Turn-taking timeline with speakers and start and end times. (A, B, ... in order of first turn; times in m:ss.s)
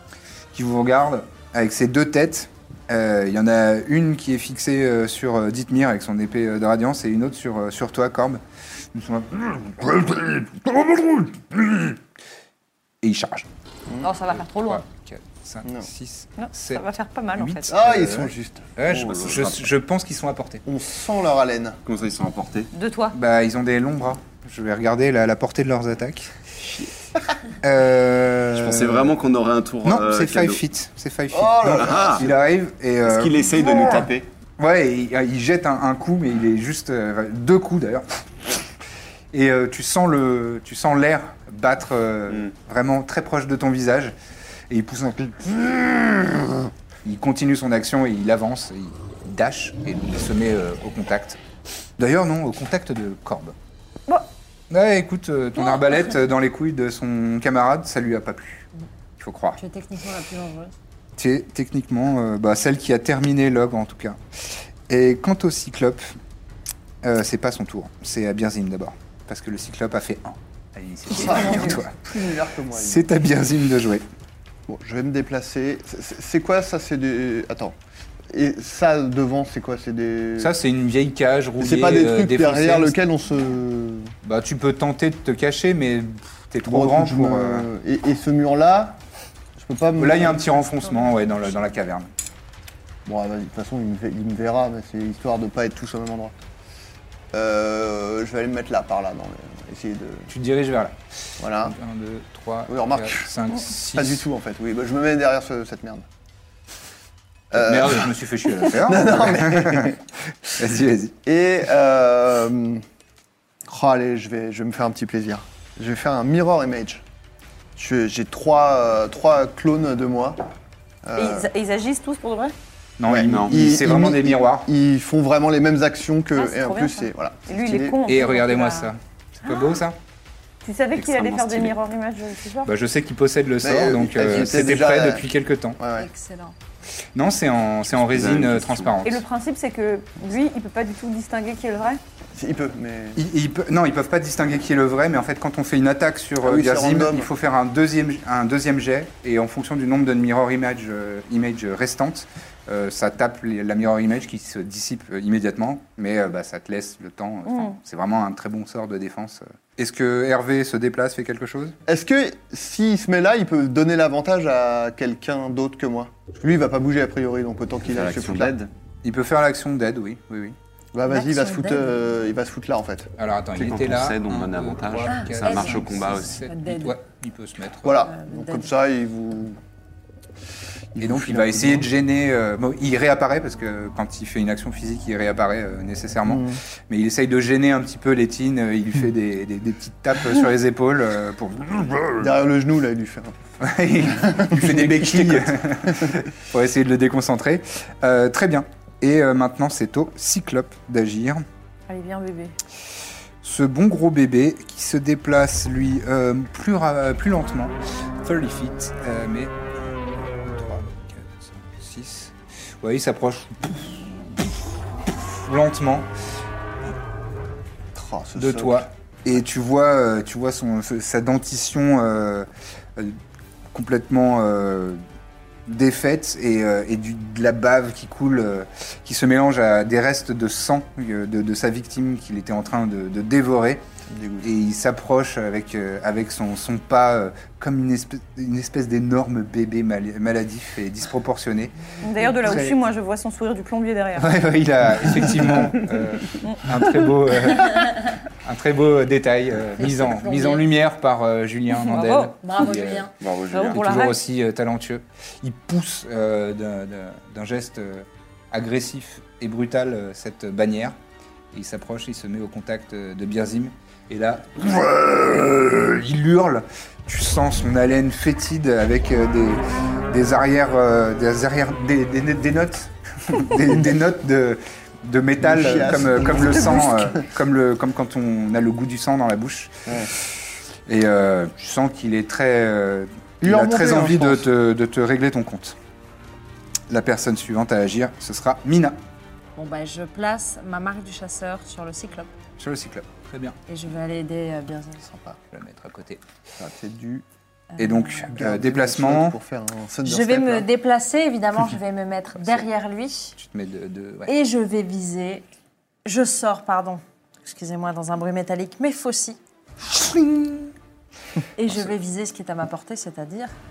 0:00.5-0:08.4 A
0:08.9-0:12.0 A
0:13.0-0:13.5 A
0:14.0-0:14.8 B
0:14.3-0:20.6 A
0:16.4-0:17.7 B
0:17.7-0:19.4 C
0:18.9-0:19.6 D
0:20.6-0:21.8 C
0:21.8-0:22.7 D
0:22.7-0:23.2 B
0:23.1-0:26.3 A
0:27.6-0:29.1 A
0:28.5-0:30.6 D
0:29.8-0:33.9 A
0:31.3-0:32.3 C
0:31.8-0:32.3 D
0:33.0-0:34.3 D
0:34.6-0:38.2 A
0:39.3-0:44.2 A
0:44.7-0:51.4 A
0:52.0-0:53.6 A
0:54.7-0:58.7 A
0:59.2-0:59.6 A
0:59.6-1:00.7 E
1:01.2-1:06.1 A
1:07.0-1:12.0 A
1:11.1-1:13.1 C
1:12.7-1:14.0 A
1:14.7-1:17.7 C
1:18.3-1:20.5 C
1:20.4-1:23.0 A
1:21.6-1:24.1 C
1:24.2-1:27.7 A
1:26.6-1:29.0 C
1:29.6-1:30.5 C
1:30.0-1:32.1 A
1:33.0-1:36.3 C
1:37.3-1:40.3 C
1:40.3-1:44.2 A
1:41.4-1:41.8 C
1:42.7-1:46.0 C
1:47.5-1:50.0 C
1:47.5-1:51.2 A
1:51.2-1:52.8 C
1:53.7-1:57.0 C
1:57.8-2:00.4 C
2:01.0-2:01.5 C
2:01.2-2:02.5 B
2:03.0-2:04.7 A
2:03.0-2:08.0 C
2:03.2-2:03.6 D
2:06.3-2:08.9 B
2:08.0-2:10.0 A
2:10.6-2:12.7 B
2:11.1-2:11.7 D
2:12.6-2:15.8 A
2:13.6-2:15.2 C
2:15.8-2:16.1 C
2:15.9-2:16.5 E
2:17.1-2:19.2 A
2:18.0-2:19.0 D
2:19.0-2:22.0 B
2:22.3-2:23.2 C
2:23.2-2:41.8 A
2:26.4-2:27.3 C
2:37.4-2:37.8 B
2:41.9-2:48.5 C
2:47.9-2:48.7 D
2:49.0-2:50.6 A
2:50.9-2:53.1 C
2:51.1-2:52.0 E
2:53.2-2:58.1 A
2:53.6-2:56.4 D
2:55.0-2:57.0 E
2:57.8-2:59.6 C
2:57.9-2:58.7 E
3:00.9-3:01.9 C
3:01.0-3:12.3 A
3:06.2-3:06.6 C
3:12.1-3:13.4 C
3:13.6-3:21.4 A
3:14.1-3:16.1 C
3:21.9-3:22.5 B
3:23.4-3:34.6 A
3:35.2-3:36.1 A
3:37.9-3:38.9 C
3:38.4-3:43.2 A
3:43.7-3:45.0 A
3:45.6-3:53.8 A
3:54.1-3:54.5 C
3:54.4-4:01.7 A
4:02.0-4:04.4 B
4:02.4-4:02.8 A
4:04.2-4:13.1 A
4:09.8-4:10.7 E
4:11.8-4:12.3 B
4:12.4-4:13.1 E
4:13.2-4:13.8 D
4:13.5-4:14.2 B
4:13.7-4:21.0 A
4:21.5-4:39.9 A
4:35.4-4:37.3 C
4:39.9-4:40.1 C
4:40.8-4:45.8 A
4:43.4-4:44.5 C
4:46.9-4:49.0 A
4:49.6-4:52.3 E
4:52.6-4:53.6 A
4:53.7-4:55.1 E
4:55.1-4:55.4 C
4:55.5-4:56.2 A
4:56.6-4:57.2 C
4:57.7-4:58.3 E
4:57.8-4:59.4 A
4:58.3-5:00.7 C
5:00.0-5:03.4 E
5:02.4-5:02.7 A
5:03.4-5:04.3 A
5:04.2-5:05.4 E
5:06.0-5:09.4 E
5:09.8-5:10.7 A
5:11.6-5:13.5 E